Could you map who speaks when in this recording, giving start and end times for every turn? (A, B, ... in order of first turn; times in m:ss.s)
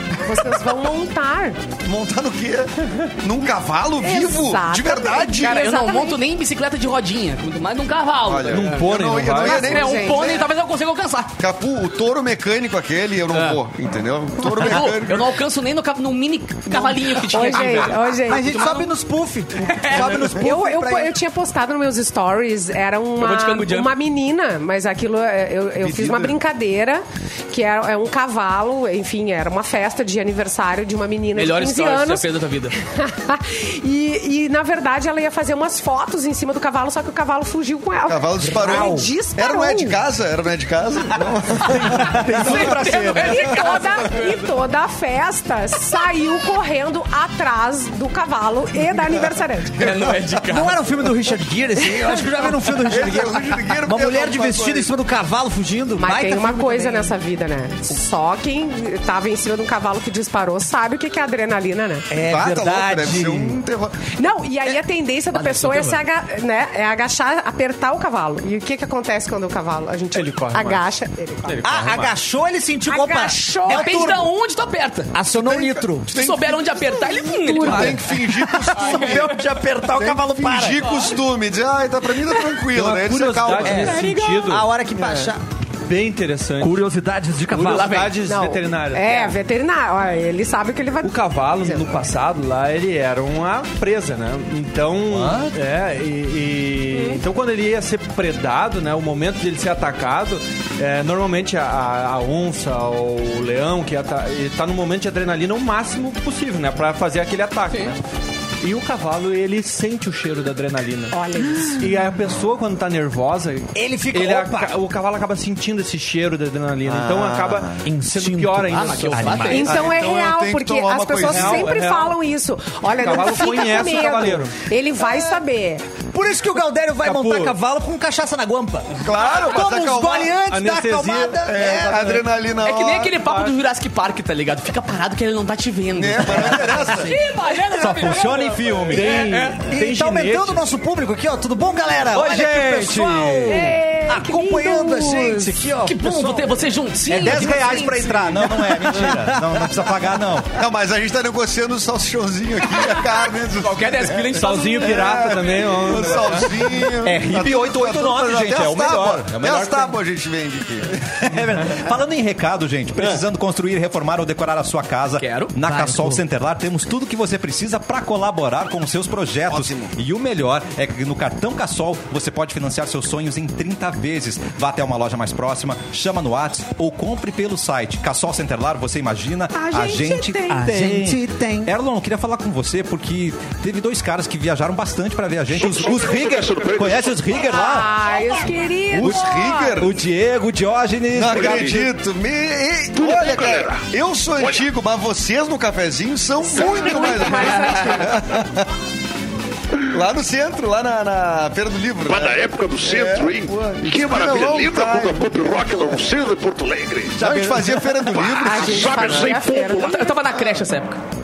0:00.2-0:01.6 A
0:01.8-0:05.6 B
0:04.0-0:06.2 A
0:05.4-0:08.9 C
0:08.2-0:10.5 B
0:08.5-0:09.7 D
0:09.4-0:11.3 C
0:09.4-0:10.4 A
0:11.4-0:15.4 B
0:13.3-0:13.6 C
0:14.4-0:18.9 C
0:16.7-0:17.3 B
0:17.3-0:18.7 A
0:17.5-0:21.1 E
0:19.6-0:20.3 C
0:20.4-0:32.2 A
0:23.2-0:23.9 C
0:25.8-0:26.4 B
0:31.4-0:32.7 C
0:32.8-0:40.0 A
0:38.0-0:42.3 B
0:38.4-0:39.1 E
0:41.7-0:43.6 F
0:41.8-0:42.6 E
0:42.3-0:44.5 C
0:42.4-0:49.8 A
0:49.8-0:50.8 C
0:49.8-0:50.4 B
0:50.4-0:57.1 E
0:52.8-0:54.9 B
0:56.0-1:02.1 A
1:02.1-1:03.6 E
1:02.2-1:04.0 B
1:04.2-1:11.6 A
1:05.3-1:06.0 C
1:10.1-1:10.9 D
1:11.4-1:12.1 D
1:11.6-1:14.3 E
1:12.9-1:14.0 A
1:13.7-1:15.1 C
1:15.1-1:16.1 E
1:15.3-1:24.0 B
1:16.2-1:18.1 C
1:16.9-1:17.9 A
1:17.6-1:20.9 E
1:18.7-1:19.4 C
1:20.8-1:21.2 C
1:22.7-1:24.7 D
1:23.5-1:25.4 E
1:24.9-1:25.3 B
1:25.8-1:26.8 D
1:26.6-1:28.0 E
1:27.5-1:29.2 D
1:27.5-1:28.2 C
1:28.2-1:31.9 A
1:31.0-1:48.0 D
1:35.1-1:35.5 F
1:36.9-1:37.2 A
1:48.6-1:51.2 D
1:51.1-1:51.9 A
1:51.4-1:51.8 E
1:51.8-1:59.5 D
1:53.7-1:54.8 E
1:56.8-1:57.8 B
1:57.8-1:59.7 E
1:58.7-1:59.8 C
1:59.5-2:05.8 A
1:59.6-2:01.8 B
2:01.2-2:02.2 D
2:02.9-2:04.6 D
2:06.1-2:12.2 E
2:07.0-2:07.6 D
2:09.0-2:10.4 B
2:10.5-2:11.4 D
2:11.4-2:13.2 B
2:12.6-2:19.6 C
2:15.9-2:17.1 B
2:17.8-2:18.9 E
2:17.8-2:19.2 F
2:18.9-2:20.6 D
2:19.6-2:26.6 E
2:22.1-2:23.7 F
2:23.5-2:25.5 A
2:25.8-2:28.7 C
2:27.1-2:30.5 F
2:27.1-2:27.8 E
2:28.4-2:29.7 E
2:30.5-2:41.0 B
2:32.7-2:33.0 C
2:33.6-2:35.5 C
2:34.4-2:36.6 D
2:37.0-2:40.0 F
2:41.2-3:07.9 F
2:45.2-2:45.5 C
2:45.6-2:46.2 E
2:49.5-2:49.9 B
2:59.5-3:00.6 A
3:00.5-3:01.7 E
3:05.5-3:07.3 G
3:07.4-3:09.8 A
3:08.9-3:09.9 B
3:09.0-3:11.9 F
3:11.1-3:18.7 B
3:11.2-3:11.9 G
3:12.9-3:14.7 G
3:16.4-3:18.2 A
3:16.6-3:17.5 G
3:19.9-3:25.8 B
3:22.0-3:27.3 G
3:27.2-3:29.3 B
3:27.3-3:27.7 F
3:28.1-3:30.1 G
3:28.4-3:30.1 A
3:29.7-3:31.0 C